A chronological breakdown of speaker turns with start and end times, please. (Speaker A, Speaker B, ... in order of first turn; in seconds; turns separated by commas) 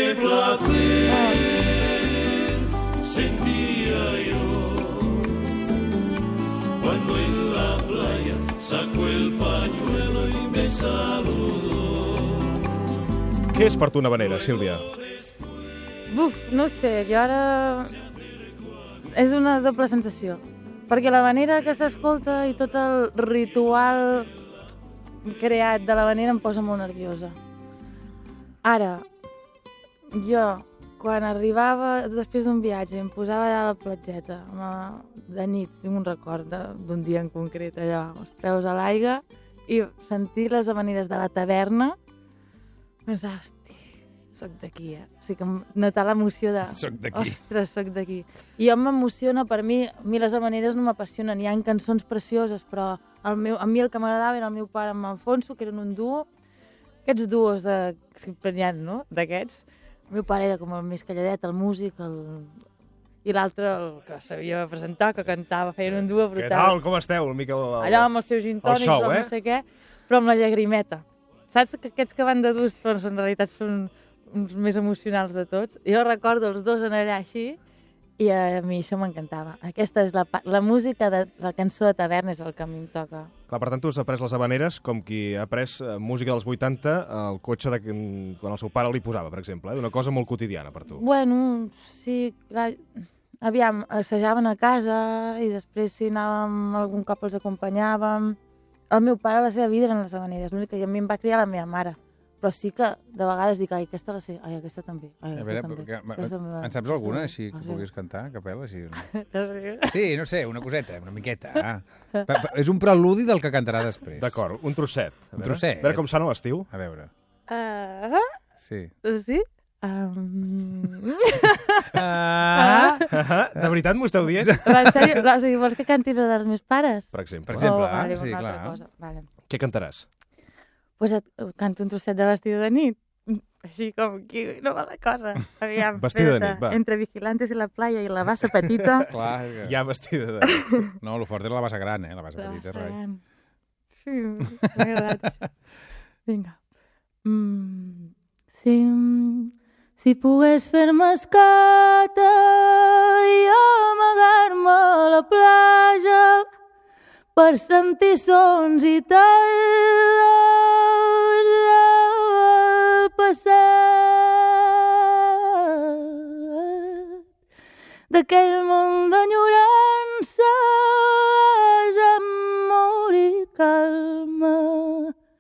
Speaker A: 1.0-1.4, Speaker B: 13.5-14.8, Speaker A: 16.1-17.9, Speaker A: 19.1-24.3, Speaker A: 25.2-27.4, Speaker A: 28.6-29.0, Speaker A: 30.1-42.0, Speaker A: 43.1-43.9, Speaker A: 44.4-56.2, Speaker C: 46.7-47.4, Speaker A: 57.0-62.5, Speaker A: 63.2-66.8, Speaker B: 65.9-68.1, Speaker A: 67.8-77.6, Speaker B: 68.6-69.3, Speaker A: 78.2-83.3, Speaker B: 83.5-91.0, Speaker A: 90.9-92.8, Speaker A: 93.4-98.4, Speaker A: 98.9-107.8, Speaker C: 105.3-109.1, Speaker A: 109.1-109.9, Speaker C: 109.9-114.4, Speaker B: 114.2-116.7, Speaker C: 115.4-116.0, Speaker C: 116.7-117.1, Speaker A: 117.5-118.3, Speaker C: 118.6-118.9, Speaker A: 119.0-121.9, Speaker C: 121.9-123.0, Speaker A: 122.5-123.1, Speaker B: 123.1-124.9, Speaker C: 124.4-125.1, Speaker A: 124.6-129.3, Speaker B: 127.1-127.7, Speaker C: 127.5-128.8, Speaker B: 129.5-130.1, Speaker A: 131.0-139.1, Speaker B: 135.9-136.8, Speaker B: 138.6-140.8, Speaker C: 139.1-139.8, Speaker A: 140.4-140.8, Speaker C: 141.0-143.0, Speaker A: 142.4-143.2, Speaker A: 144.0-145.4, Speaker A: 146.3-146.6, Speaker A: 147.2-156.5, Speaker A: 157.4-164.6, Speaker A: 165.9-167.0, Speaker A: 168.1-175.1